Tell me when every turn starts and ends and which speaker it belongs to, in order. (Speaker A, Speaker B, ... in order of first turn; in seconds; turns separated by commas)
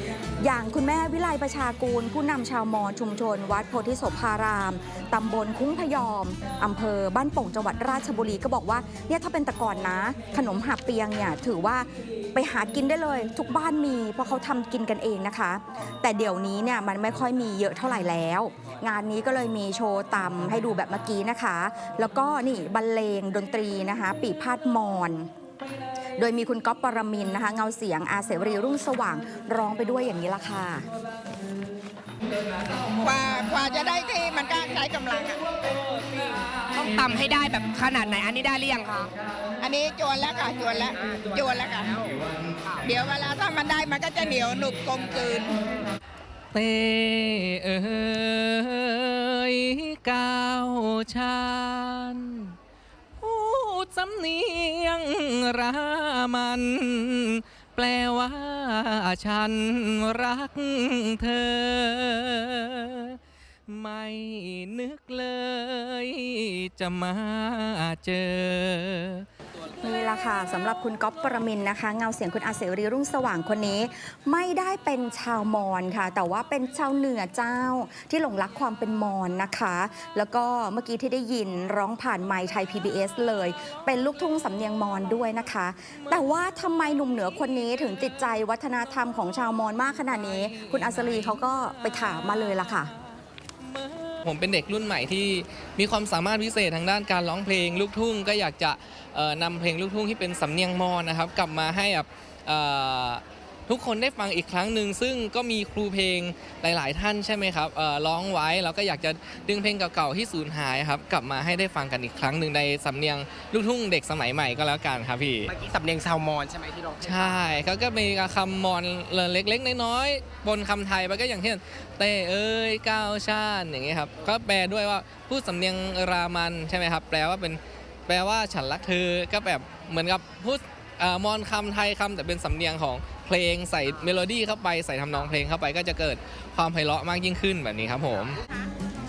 Speaker A: 0.4-25.3, Speaker A: 26.2-30.9, Speaker B: 33.0-35.4, Speaker C: 36.7-39.1, Speaker B: 39.6-41.9, Speaker C: 41.4-42.1, Speaker B: 42.8-45.5, Speaker D: 46.5-52.5, Speaker D: 53.2-69.2, Speaker A: 69.8-92.9, Speaker D: 90.1-92.4, Speaker D: 93.6-115.5, Speaker C: 115.5-117.6, Speaker D: 117.0-138.4